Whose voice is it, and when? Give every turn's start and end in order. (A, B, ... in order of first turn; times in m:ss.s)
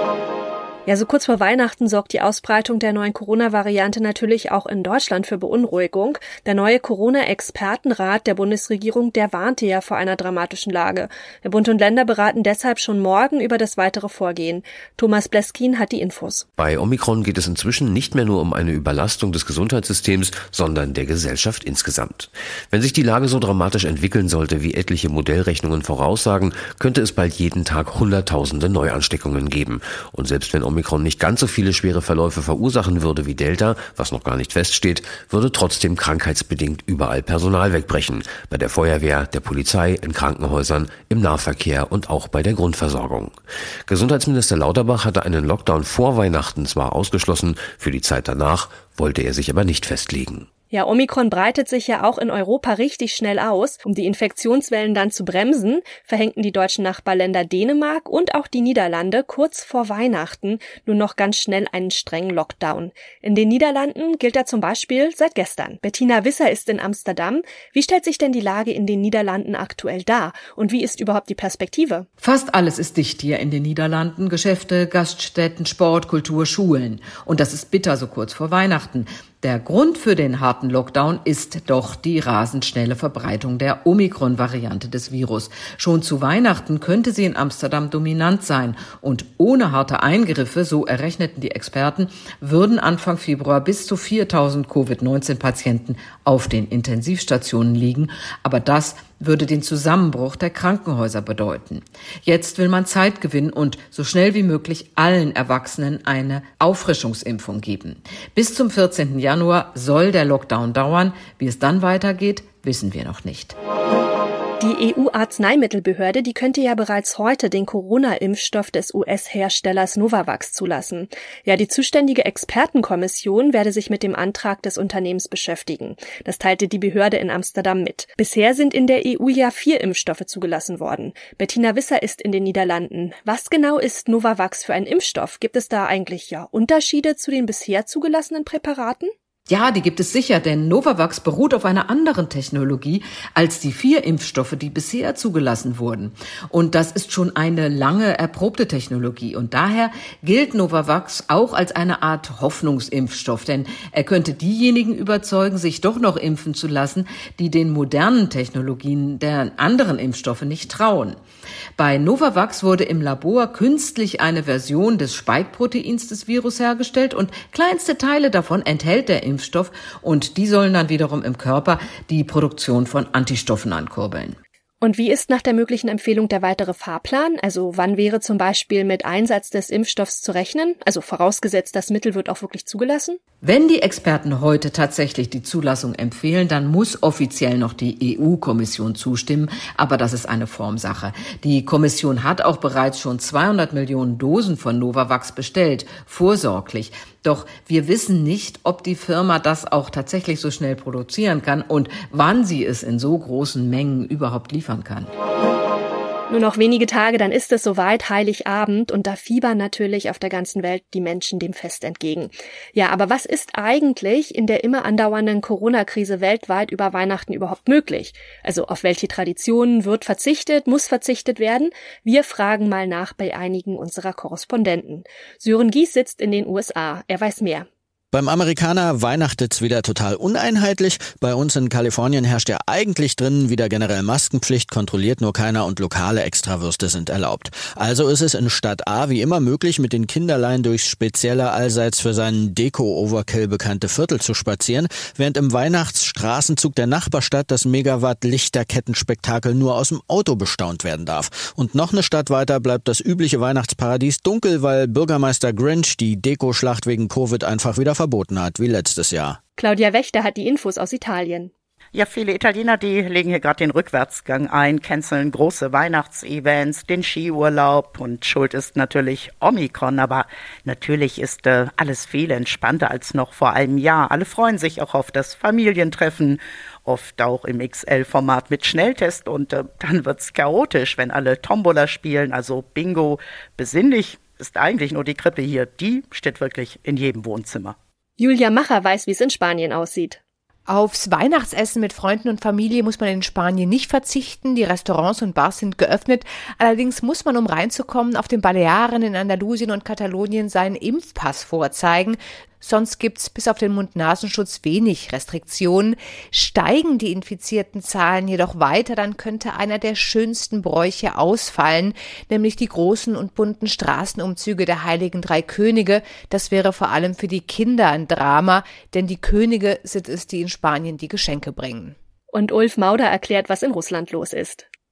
0:00.9-0:16.4 A
0:16.6-0:43.4 B
0:43.9-0:50.5 B
0:50.7-1:12.0 A
1:12.2-1:53.6 C
1:54.6-2:19.1 A
2:19.5-2:41.2 C
2:41.8-2:54.4 C
2:54.8-3:03.2 A
3:03.4-3:25.1 C
3:26.3-3:47.6 A
3:48.1-4:19.4 D
4:19.6-4:21.5 A
4:21.9-4:47.8 E
4:48.2-4:50.2 A
4:50.7-5:21.9 F
5:22.3-5:24.7 A